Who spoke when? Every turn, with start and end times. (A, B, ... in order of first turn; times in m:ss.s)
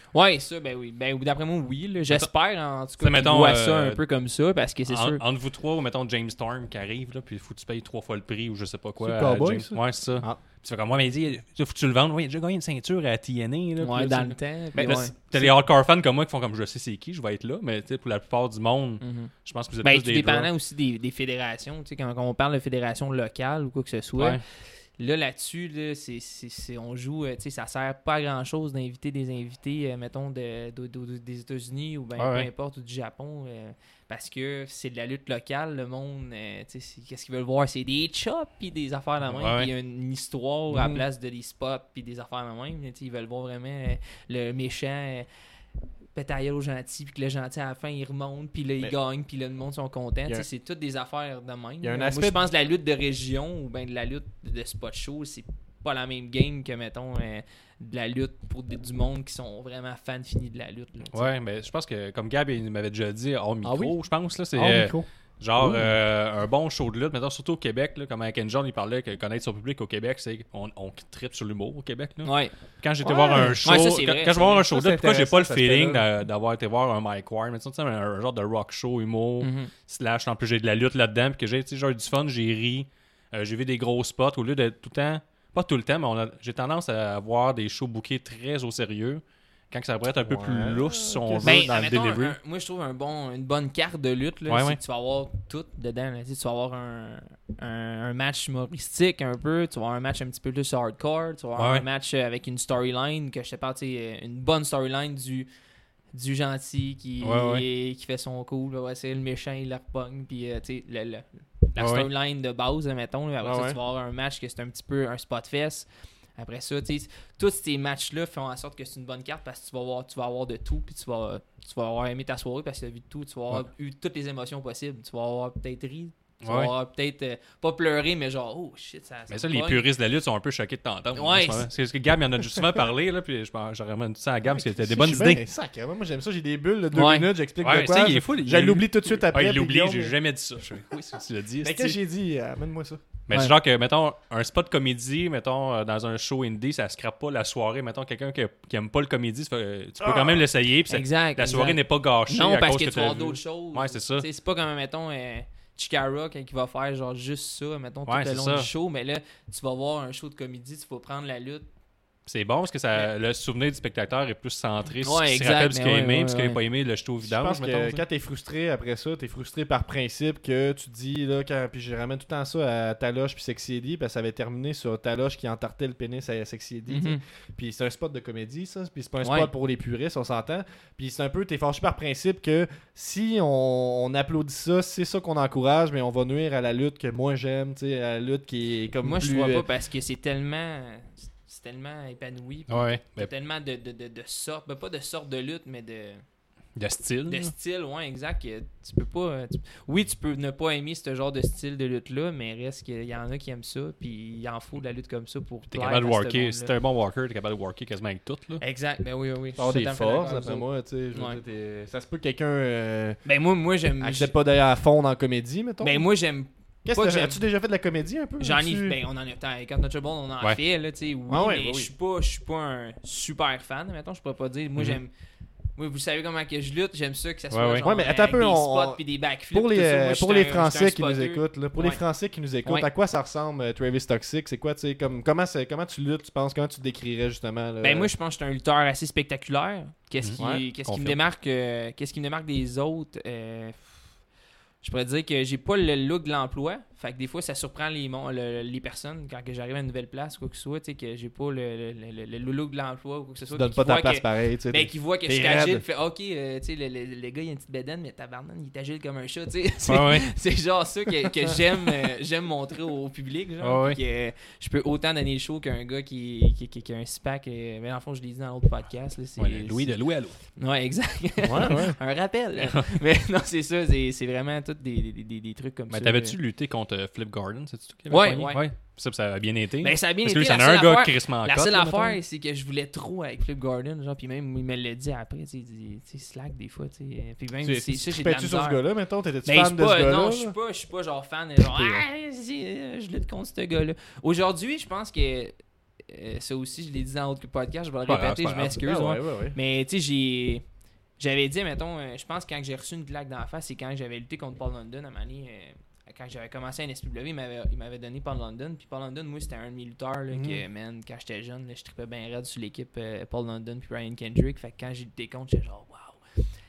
0:00.1-0:05.2 A
0:03.0-0:04.0 B
0:04.9-0:20.5 B
0:09.0-0:10.4 C
0:13.8-0:15.1 A
0:14.7-0:15.6 C
0:19.0-0:19.3 A
0:19.8-0:24.4 A
0:25.0-0:45.3 A
0:32.2-0:32.5 B
0:39.4-0:39.7 B
0:40.7-0:41.0 C
0:46.1-1:01.3 A
0:51.8-0:52.4 C
1:01.1-1:32.4 B
1:03.6-1:04.0 C
1:04.5-1:06.0 C
1:12.2-1:12.6 A
1:13.0-1:13.6 C
1:13.6-1:14.6 A
1:14.7-1:16.0 C
1:19.4-1:19.7 A
1:30.2-1:31.7 C
1:31.4-1:45.5 A
1:34.5-1:34.8 B
1:41.6-1:41.8 B
1:46.1-2:09.9 A
1:47.2-1:47.6 B
1:51.8-1:52.1 B
1:53.4-1:53.8 C
2:06.4-2:06.7 B
2:09.3-2:15.4 B
2:11.2-2:11.7 A
2:14.4-2:20.1 C
2:16.9-2:17.3 A
2:17.6-2:22.0 B
2:21.6-2:23.0 C
2:23.3-2:34.3 B
2:30.0-2:30.4 C
2:30.9-2:41.7 A
2:38.1-2:38.7 B
2:42.3-2:48.0 B
2:45.0-2:46.6 A
2:47.2-3:09.7 C
2:56.9-2:57.2 A
2:59.2-2:59.5 A
3:09.0-3:16.2 A
3:12.7-3:13.3 B
3:16.8-3:17.5 B
3:17.3-3:26.7 A
3:25.7-3:28.6 B
3:28.6-3:31.4 A
3:29.6-3:33.2 C
3:33.2-3:34.3 A
3:34.0-3:36.1 C
3:35.8-3:37.4 A
3:36.8-3:39.0 C
3:38.4-3:45.1 A
3:41.3-3:41.9 C
3:45.8-3:52.0 A
3:47.5-3:47.9 B
3:47.8-3:58.1 C
3:57.8-4:04.0 A
4:00.2-4:01.2 B
4:00.4-4:00.7 C
4:04.8-4:36.4 A
4:13.5-4:15.8 C
4:19.9-4:20.3 B
4:23.6-4:24.0 B
4:29.4-4:30.4 B
4:31.4-4:32.0 C
4:35.9-4:42.2 B
4:38.1-4:38.6 A
4:39.8-4:48.8 A
4:47.6-4:50.6 C
4:49.4-4:55.6 A
4:51.7-4:52.0 C
4:56.1-5:00.6 A
4:58.1-4:58.8 B
4:58.7-4:59.6 C
5:01.2-5:16.2 A
5:10.3-5:10.6 C